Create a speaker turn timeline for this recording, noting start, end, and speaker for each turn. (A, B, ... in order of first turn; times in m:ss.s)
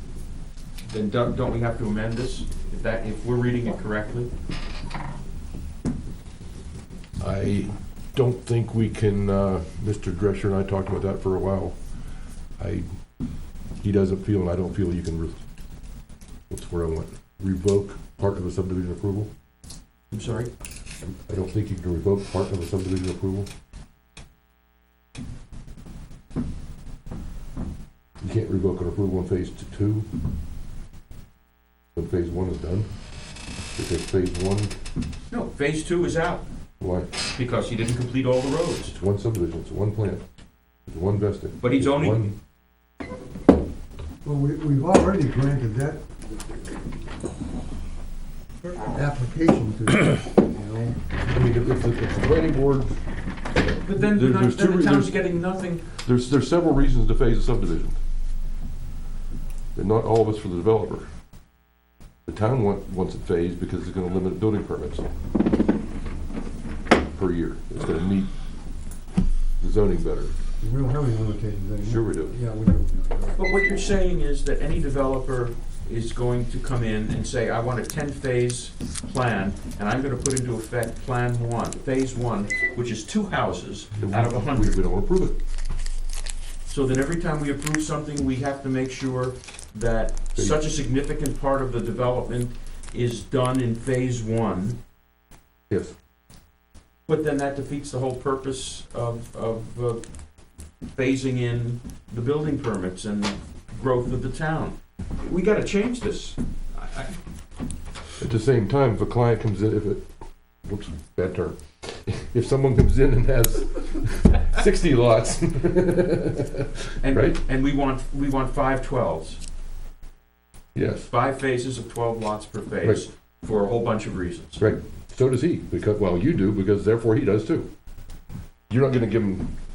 0:00.9-0:04.3 A
0:07.2-0:11.8 B
0:12.6-0:12.9 B
0:13.8-0:15.4 B
0:16.5-0:19.3 B
0:20.1-0:20.5 A
0:21.0-0:23.5 B
0:28.2-0:30.1 B
0:32.0-0:32.9 B
0:33.8-0:34.8 B
0:35.3-0:36.4 A
0:36.8-0:37.1 B
0:37.3-0:39.0 A
0:38.9-0:40.2 B
0:40.9-0:42.4 B
0:41.6-0:42.3 A
0:44.2-0:46.0 C
0:48.6-0:51.0 C
0:51.2-0:53.0 B
0:53.7-0:55.3 B
0:53.8-0:55.9 A
0:55.9-0:58.0 B
0:59.8-1:01.1 B
1:02.3-1:05.0 B
1:07.2-1:08.3 B
1:09.6-1:10.3 B
1:10.6-1:13.4 C
1:11.8-1:12.4 B
1:13.4-1:24.8 A
1:24.0-1:25.4 B
1:26.7-1:34.8 A
1:37.1-1:40.0 A
1:41.0-1:47.2 A
1:48.2-1:50.1 B
1:50.6-1:57.4 B
1:57.0-1:59.4 A
2:00.8-2:01.1 B
2:01.0-2:04.6 A
2:04.6-2:07.7 B
2:08.7-2:09.5 B